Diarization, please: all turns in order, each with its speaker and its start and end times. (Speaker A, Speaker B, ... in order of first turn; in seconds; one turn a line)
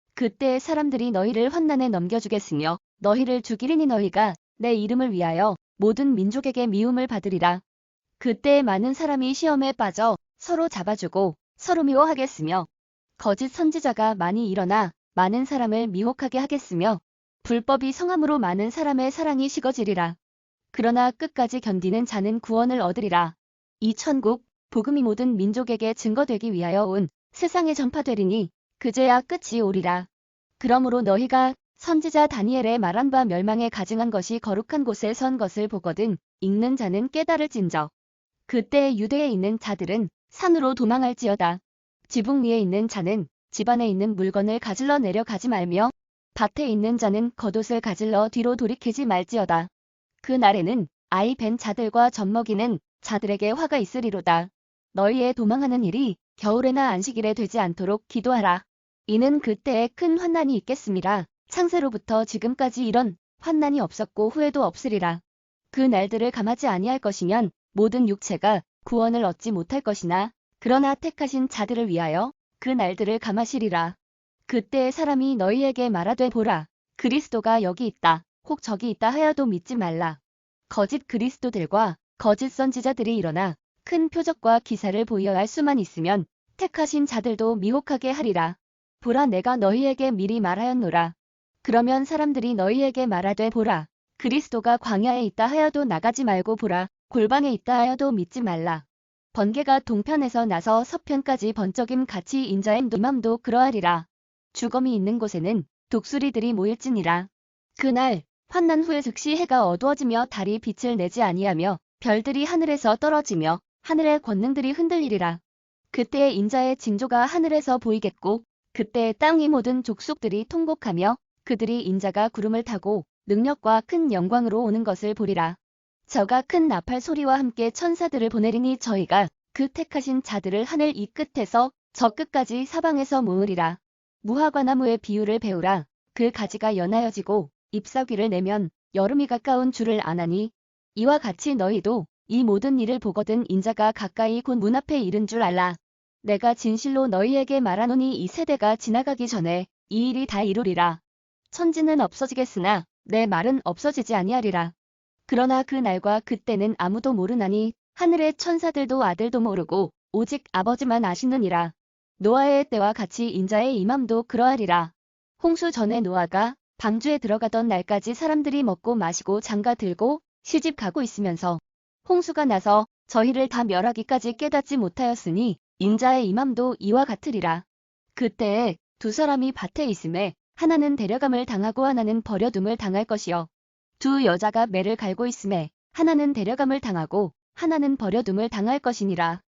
Speaker A: 0.1-7.6
Speaker A: 8.2-20.2
Speaker A: 20.7-30.1
Speaker A: 30.6-37.9
Speaker A: 38.5-49.7
Speaker A: 50.2-74.0
Speaker A: 74.5-115.4
Speaker A: 115.9-125.6
Speaker A: 126.1-154.7
Speaker A: 155.3-177.6
Speaker A: 178.2-183.5
Speaker A: 184.0-189.4